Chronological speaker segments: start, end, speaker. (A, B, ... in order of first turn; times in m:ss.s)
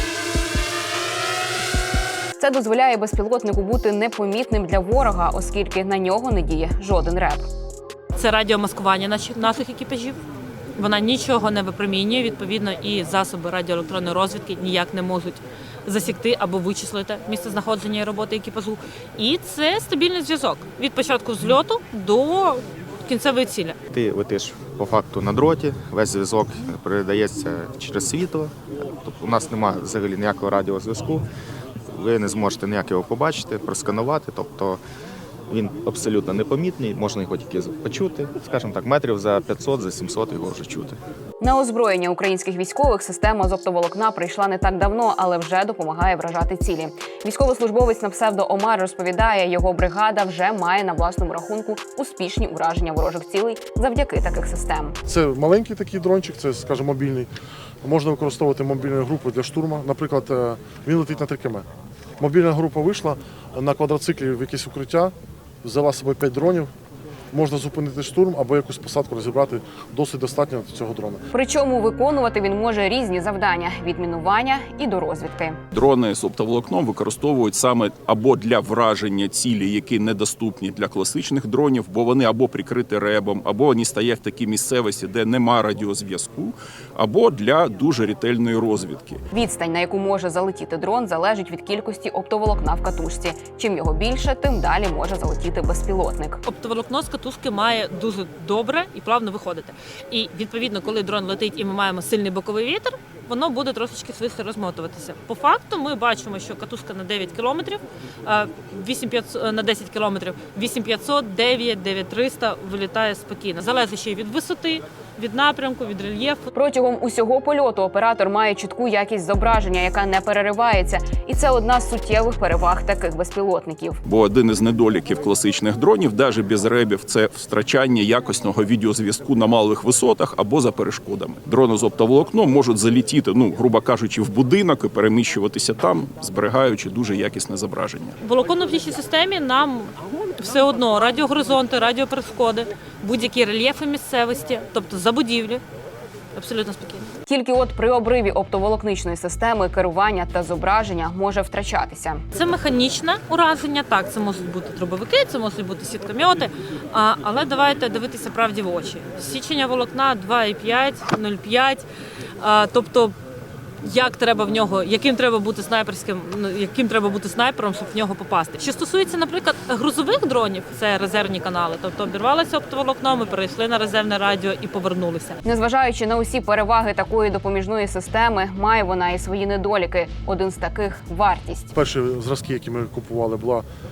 0:02.4-0:07.4 A
0:08.2-0:10.2 B
0:10.7-0:23.8 B
0:23.9-0:31.2 C
0:31.9-0:34.8 C
0:35.5-0:41.0 C
0:41.4-0:54.9 A
0:55.0-0:57.3 D
0:57.8-1:01.6 D
1:02.2-1:06.7 D
1:07.3-1:11.2 D
1:11.3-1:15.6 A
1:15.7-1:29.2 E
1:29.3-1:36.4 A
1:36.4-1:56.5 B
1:56.5-2:04.0 A
2:04.0-2:18.2 E
2:18.2-2:25.6 B
2:26.3-2:27.1 B
2:27.3-2:32.2 A
2:32.3-2:41.8 B
2:42.4-2:43.2 B
2:43.8-2:55.4 B
2:55.4-3:01.7 A
3:01.7-3:03.6 D